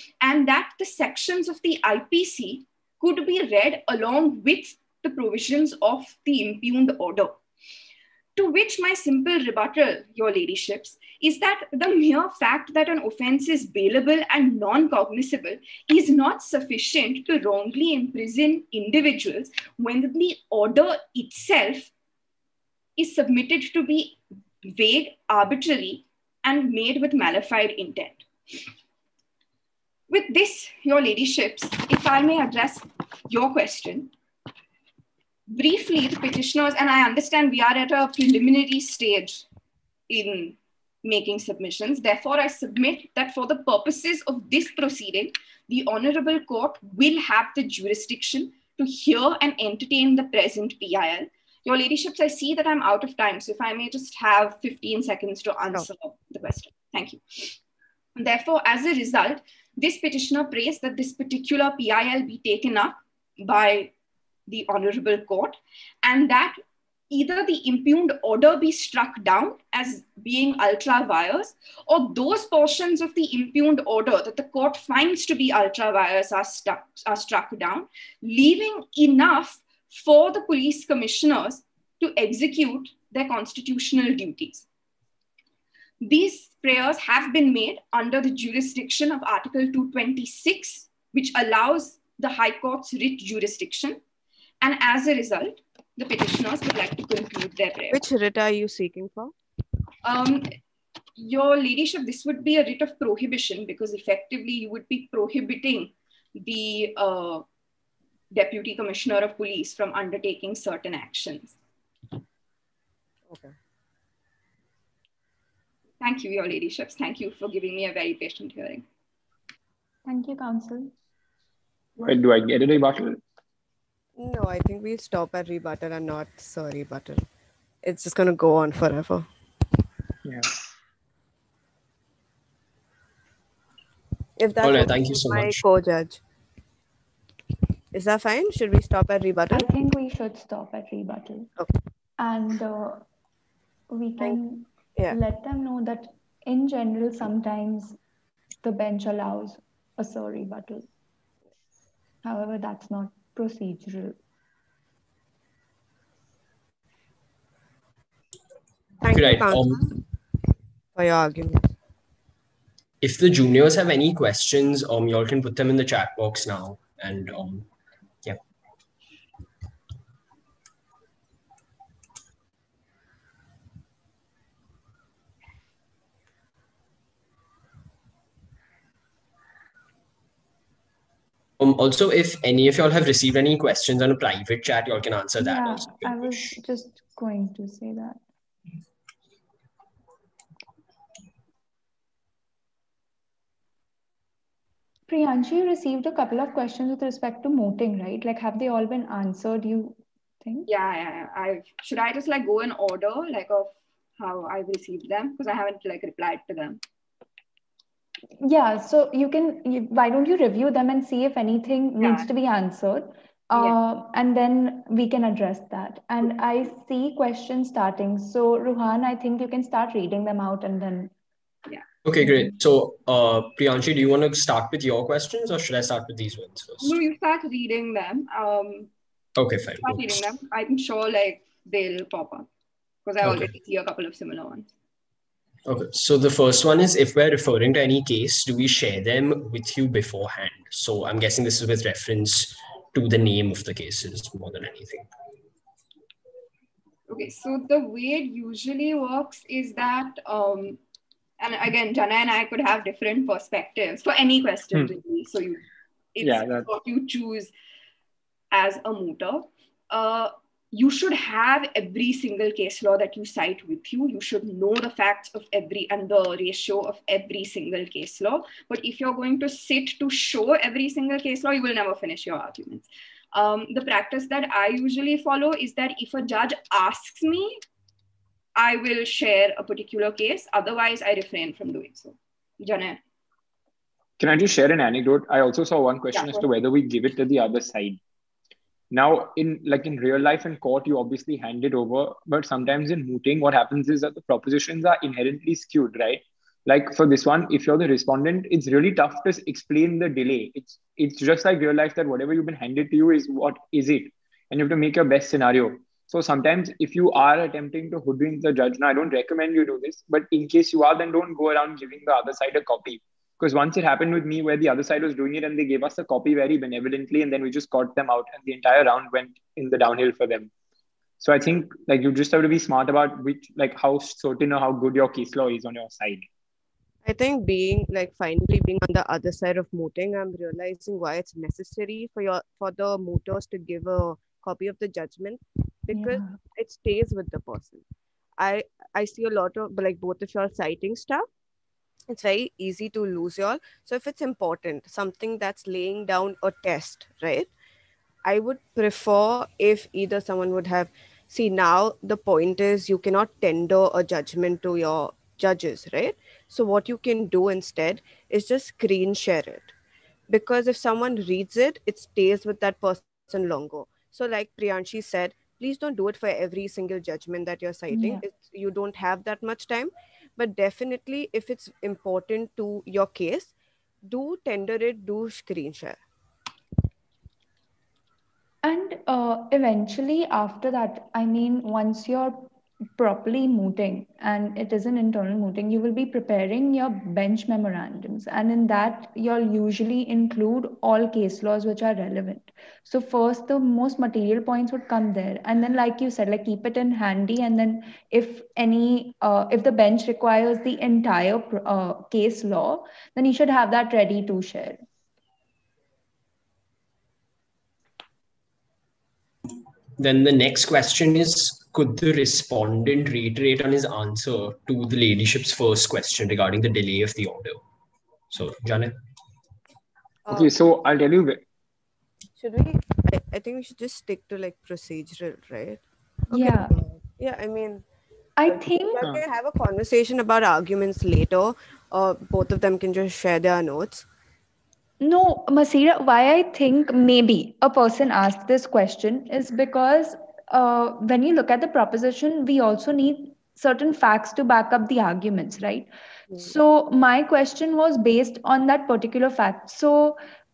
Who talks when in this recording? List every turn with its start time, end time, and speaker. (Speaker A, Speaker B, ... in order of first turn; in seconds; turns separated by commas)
Speaker A: 0.2-7.4, Speaker A: 8.4-21.9, Speaker A: 23.0-28.6, Speaker A: 30.1-34.1, Speaker A: 35.5-39.5, Speaker A: 40.1-57.6, Speaker A: 58.2-63.9, Speaker A: 64.5-66.6, Speaker A: 67.1-84.7, Speaker A: 86.0-94.0, Speaker A: 94.6-98.0, Speaker B: 97.9-99.3, Speaker A: 100.0-100.5, Speaker A: 101.2-107.4, Speaker A: 108.3-111.6, Speaker B: 113.3-113.5, Speaker A: 116.0-118.8, Speaker C: 120.0-120.9, Speaker D: 122.0-123.2, Speaker B: 124.2-127.2, Speaker B: 127.8-129.3, Speaker D: 130.2-130.5, Speaker B: 134.4-136.2, Speaker E: 134.6-135.6, Speaker B: 137.9-139.8, Speaker C: 139.5-141.5, Speaker C: 142.2-143.0, Speaker C: 143.9-148.0, Speaker C: 148.6-150.8, Speaker C: 152.2-154.2, Speaker B: 159.0-160.0, Speaker E: 159.1-159.9, Speaker B: 160.9-161.7, Speaker E: 163.0-167.7, Speaker E: 181.6-186.6, Speaker C: 185.4-188.2, Speaker C: 195.1-200.7, Speaker A: 200.7-206.8, Speaker C: 208.4-221.1, Speaker A: 212.0-212.3, Speaker E: 222.0-227.0, Speaker A: 226.8-228.9, Speaker E: 229.4-230.2, Speaker A: 229.8-232.5, Speaker A: 233.1-234.7, Speaker E: 233.2-233.5, Speaker E: 235.7-245.1, Speaker A: 247.1-250.8, Speaker A: 251.4-255.6, Speaker A: 256.1-257.5, Speaker D: 256.2-256.7, Speaker A: 258.5-277.6, Speaker A: 278.6-283.0, Speaker D: 284.2-288.0, Speaker A: 286.1-286.5, Speaker D: 288.9-320.5, Speaker D: 321.2-326.3, Speaker B: 327.0-337.8, Speaker C: 335.9-336.4, Speaker B: 338.4-341.2, Speaker B: 342.1-347.5, Speaker B: 348.2-359.7, Speaker B: 360.3-373.5, Speaker C: 367.9-368.2, Speaker B: 374.0-376.0, Speaker C: 378.6-404.8, Speaker E: 410.0-417.6, Speaker E: 418.3-418.9, Speaker D: 420.3-421.4, Speaker B: 422.4-427.9, Speaker C: 426.3-426.8, Speaker C: 428.4-429.0, Speaker B: 428.4-434.1, Speaker C: 435.0-450.2